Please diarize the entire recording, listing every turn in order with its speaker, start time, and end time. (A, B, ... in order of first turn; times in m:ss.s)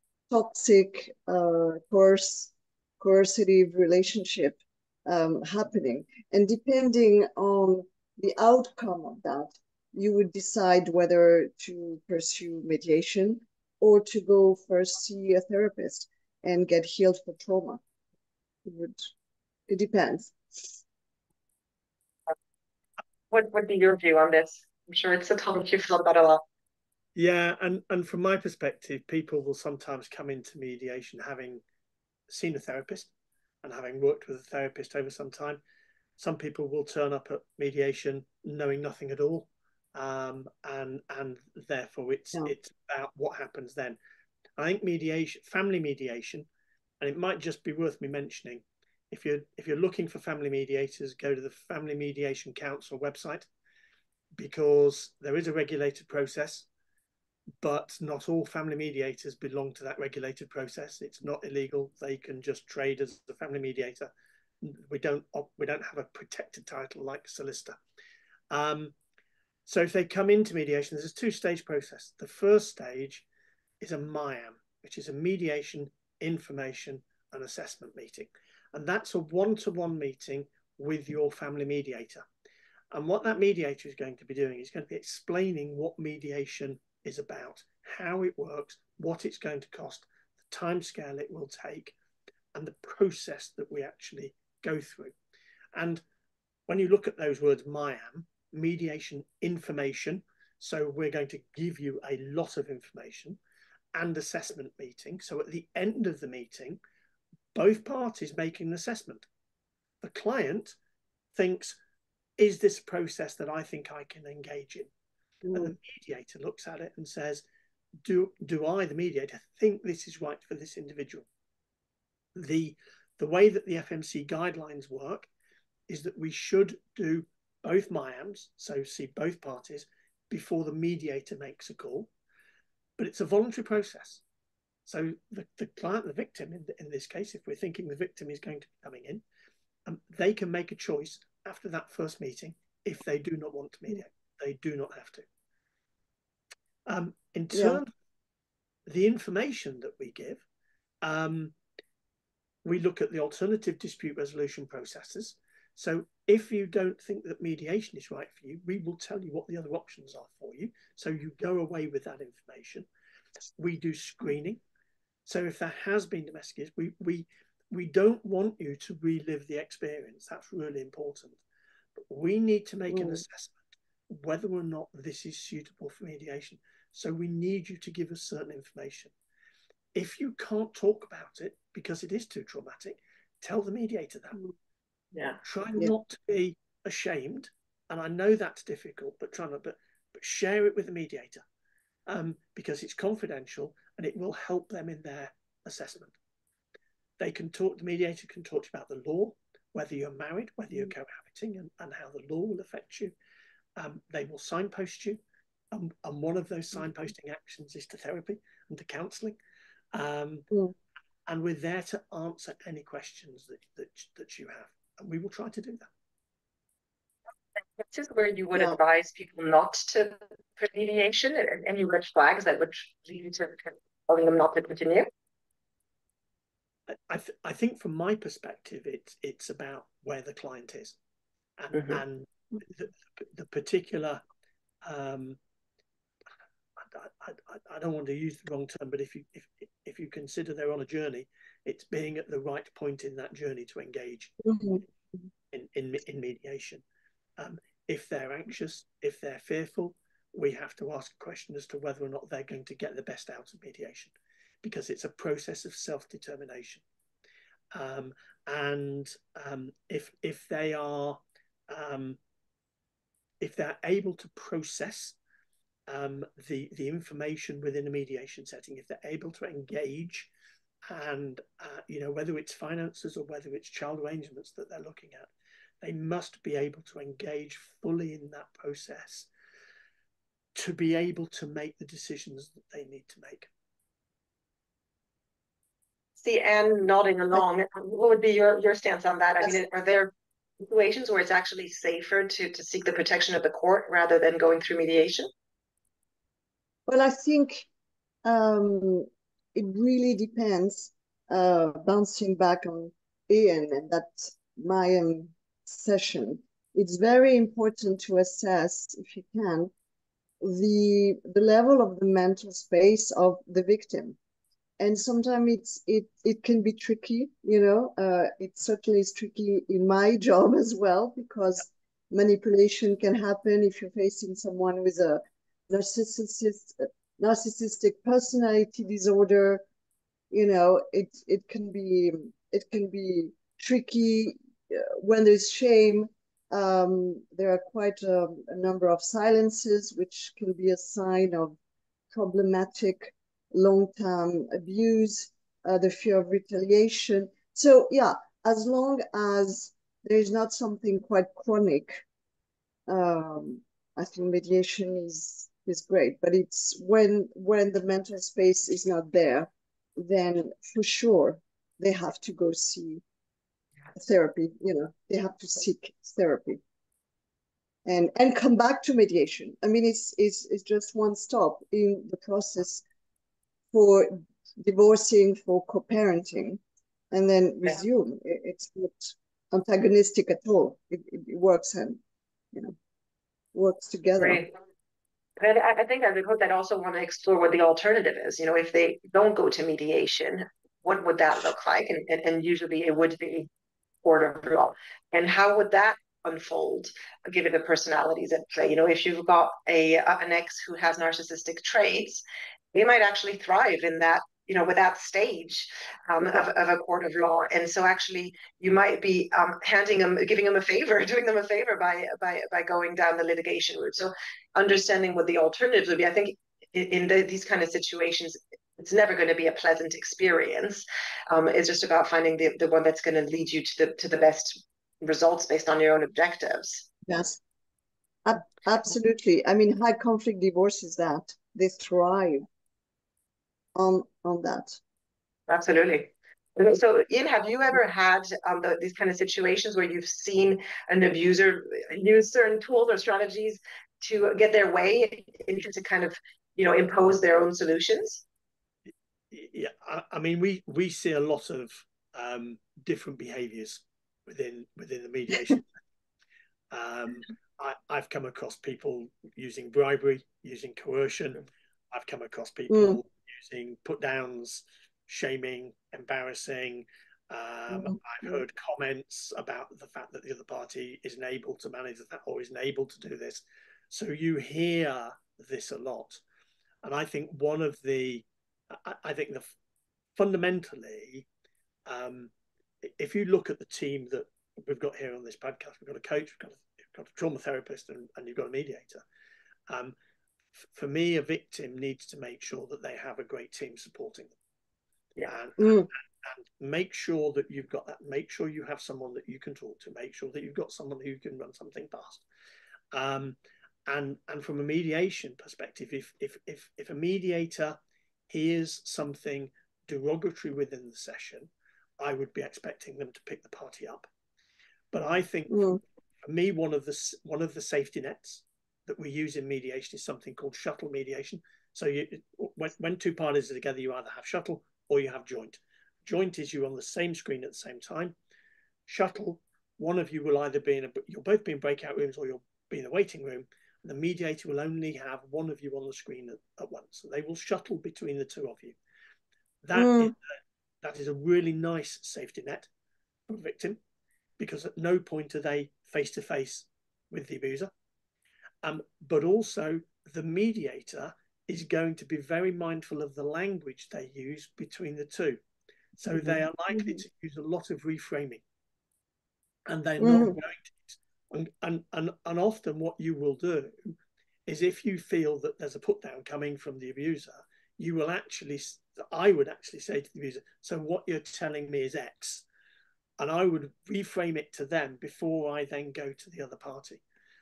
0:00.3-0:17.8 A
0:18.6-0:19.1 A
0:19.7-0:20.7 A
0:23.3-0:26.4 B
0:27.2-0:31.6 C
0:32.3-0:33.1 C
0:33.6-0:35.6 C
0:36.2-0:44.0 C
0:44.6-0:46.5 C
0:47.0-0:53.5 C
0:54.4-0:56.7 C
0:57.6-1:07.8 C
1:08.5-1:08.9 C
1:09.7-1:13.2 C
1:13.8-1:22.2 C
1:22.9-1:32.0 C
1:32.5-1:35.1 C
1:35.7-1:36.0 C
1:36.7-1:43.4 C
1:43.9-1:46.8 C
1:47.5-1:49.3 C
1:50.0-1:50.8 C
1:51.3-1:51.8 C
1:52.4-1:54.9 C
1:55.5-1:55.7 A
1:55.5-1:57.4 C
1:58.0-2:01.3 C
2:02.4-2:05.3 C
2:05.9-2:12.1 C
2:13.0-2:14.2 C
2:14.9-2:19.2 C
2:19.9-2:25.3 C
2:26.9-2:27.9 C
2:27.5-2:27.8 A
2:28.9-2:30.4 C
2:31.0-2:31.5 C
2:32.6-2:42.9 C
2:43.6-2:44.6 C
2:45.3-2:51.4 C
2:52.0-2:59.1 C
2:52.9-2:53.2 A
2:59.9-3:04.4 C
3:05.1-3:05.4 B
3:05.4-3:11.4 C
3:12.1-3:16.2 C
3:17.2-3:23.1 C
3:23.8-3:25.2 C
3:25.7-3:29.4 C
3:29.9-3:30.5 C
3:31.3-3:35.9 C
3:37.8-3:45.1 B
3:38.5-3:38.8 A
3:46.9-3:51.0 C
3:51.6-3:54.2 C
3:54.8-3:55.4 C
3:56.8-4:04.3 C
4:04.4-4:04.8 A
4:05.5-4:06.8 C
4:07.4-4:16.8 C
4:17.7-4:22.2 C
4:23.4-4:25.2 C
4:25.9-4:30.3 C
4:30.9-4:39.3 C
4:40.6-4:43.5 C
4:46.2-4:55.3 B
4:56.9-4:57.7 A
4:58.2-5:09.7 A
5:10.4-5:14.2 A
5:14.8-5:29.6 A
5:30.3-5:41.6 A
5:42.1-5:52.0 A
5:52.9-6:03.0 A
6:04.0-6:06.6 A
6:07.9-6:12.8 A
6:13.7-6:16.6 A
6:17.1-6:22.0 A
6:23.5-6:24.4 A
6:24.2-6:24.5 B
6:25.4-6:33.5 B
6:34.0-6:42.2 B
6:42.7-7:06.9 B
7:07.1-7:07.4 A
7:08.2-7:12.5 A
7:13.8-7:14.8 A
7:15.5-7:28.2 B
7:29.3-7:35.7 C
7:36.7-7:56.2 C
7:42.7-7:43.0 A
7:47.7-7:48.4 A
7:56.8-7:59.5 C
8:00.2-8:01.3 C
8:01.9-8:02.3 C
8:02.8-8:09.0 C
8:09.7-8:10.0 C
8:10.6-8:14.4 C
8:15.3-8:22.2 C
8:15.6-8:15.9 A
8:22.9-8:27.8 C
8:28.3-8:34.1 C
8:34.9-8:48.2 C
8:35.5-8:35.8 A
8:48.9-8:58.8 C
8:59.6-9:00.2 C
8:59.8-9:00.1 A
9:00.8-9:02.7 C
9:03.3-9:03.8 C
9:04.4-9:07.7 C
9:08.6-9:15.4 C
9:16.0-9:18.4 C
9:16.2-9:17.0 A
9:19.7-9:24.0 C
9:20.0-9:20.4 A
9:24.5-9:32.4 C
9:33.2-9:37.0 C